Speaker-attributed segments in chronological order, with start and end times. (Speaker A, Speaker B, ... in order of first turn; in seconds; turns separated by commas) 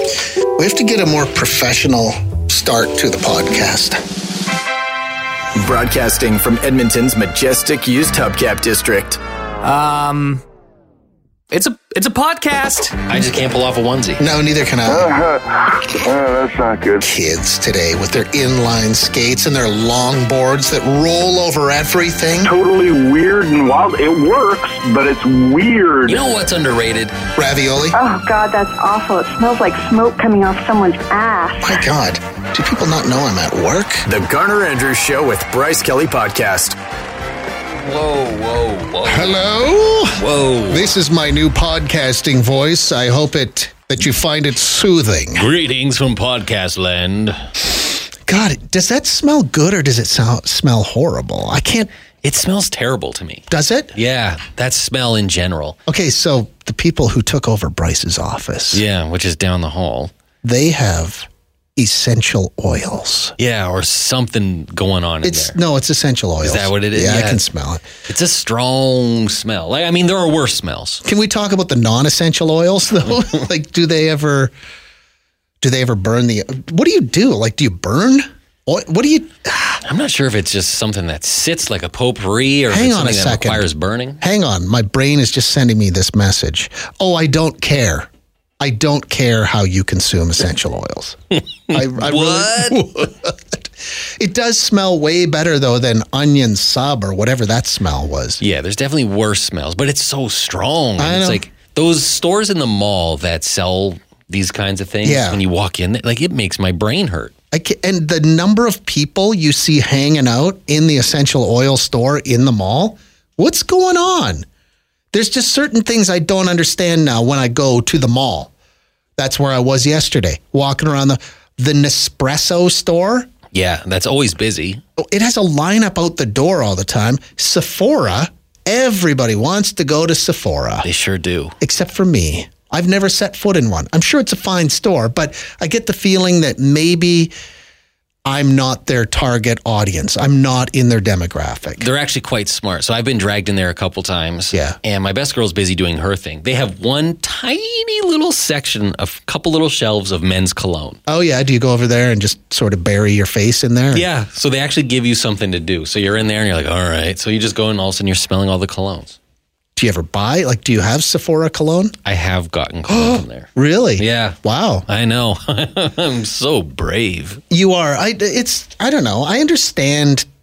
Speaker A: 0.6-4.0, Speaker B: 5.5-9.2, Speaker C: 9.6-10.4, Speaker C: 11.5-12.9, Speaker D: 12.9-14.2, Speaker A: 14.2-15.1, Speaker E: 15.0-17.1, Speaker A: 17.0-22.5, Speaker E: 22.4-26.2, Speaker D: 26.1-27.1, Speaker A: 27.4-28.0, Speaker F: 27.9-31.6, Speaker A: 31.6-34.0, Speaker B: 34.0-36.8, Speaker D: 37.8-39.4, Speaker A: 39.0-45.5, Speaker D: 40.1-40.9, Speaker D: 45.4-47.4, Speaker A: 48.3-51.9, Speaker D: 52.2-55.8, Speaker A: 53.5-53.9, Speaker A: 55.9-58.8, Speaker D: 58.7-60.1, Speaker A: 60.4-63.3, Speaker D: 63.4-65.5, Speaker A: 65.2-67.8, Speaker D: 66.4-67.4, Speaker D: 68.1-71.0, Speaker A: 71.0-74.5, Speaker A: 75.6-79.8, Speaker D: 79.8-84.2, Speaker A: 82.7-83.7, Speaker A: 84.2-88.1, Speaker A: 88.6-91.2, Speaker D: 91.7-92.8, Speaker A: 91.7-93.6, Speaker A: 94.2-98.4, Speaker D: 98.4-107.3, Speaker A: 101.0-101.4, Speaker A: 105.0-105.4, Speaker A: 107.5-114.4, Speaker A: 115.1-118.5, Speaker A: 119.2-123.3, Speaker D: 123.5-124.8, Speaker A: 125.0-130.9, Speaker D: 130.8-131.5, Speaker A: 131.6-137.3, Speaker A: 138.2-141.9, Speaker D: 141.8-151.0, Speaker A: 144.5-144.8, Speaker A: 151.1-154.1, Speaker D: 153.9-159.2, Speaker A: 159.8-161.9, Speaker D: 162.0-167.4, Speaker A: 162.9-164.8, Speaker A: 167.5-170.2